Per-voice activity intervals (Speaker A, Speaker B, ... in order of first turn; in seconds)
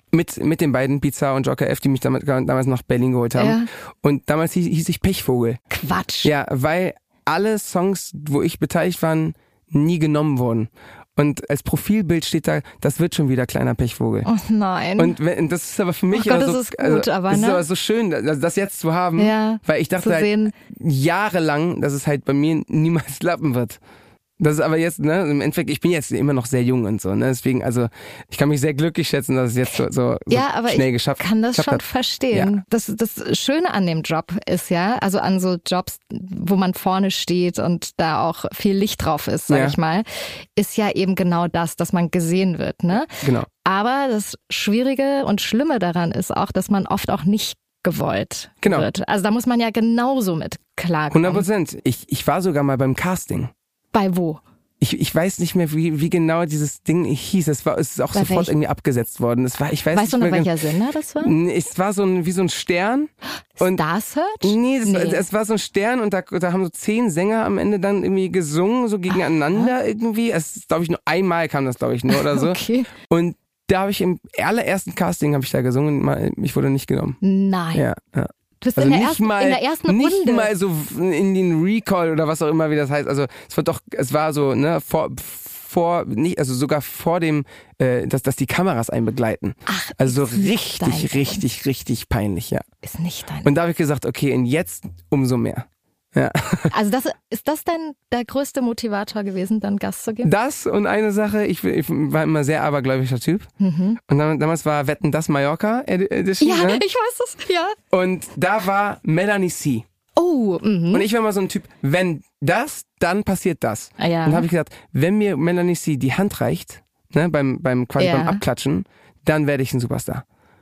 Speaker A: 0.1-5.6, 6.2-14.3, 15.0-23.8, 24.4-32.6, 39.5-39.8, 43.2-43.5, 48.6-48.9, 51.1-53.5, 54.8-60.5, 61.2-63.8, 64.4-77.2, 77.7-92.6, 93.4-96.7, 100.2-103.5, 104.1-106.8, 107.9-109.8, 110.9-120.2
Speaker B: 3.4-3.7, 5.7-6.3, 14.2-15.1, 16.1-17.6, 19.2-20.5, 30.3-43.1, 43.6-51.5, 53.9-54.4, 58.1-58.5, 59.9-61.3, 63.6-65.2, 69.1-69.7, 72.1-72.9, 77.2-77.8, 78.6-80.5, 89.7-91.4, 92.8-93.5, 96.7-100.3, 103.6-104.0, 106.4-107.8, 110.2-111.1, 114.0-114.5, 118.0-118.4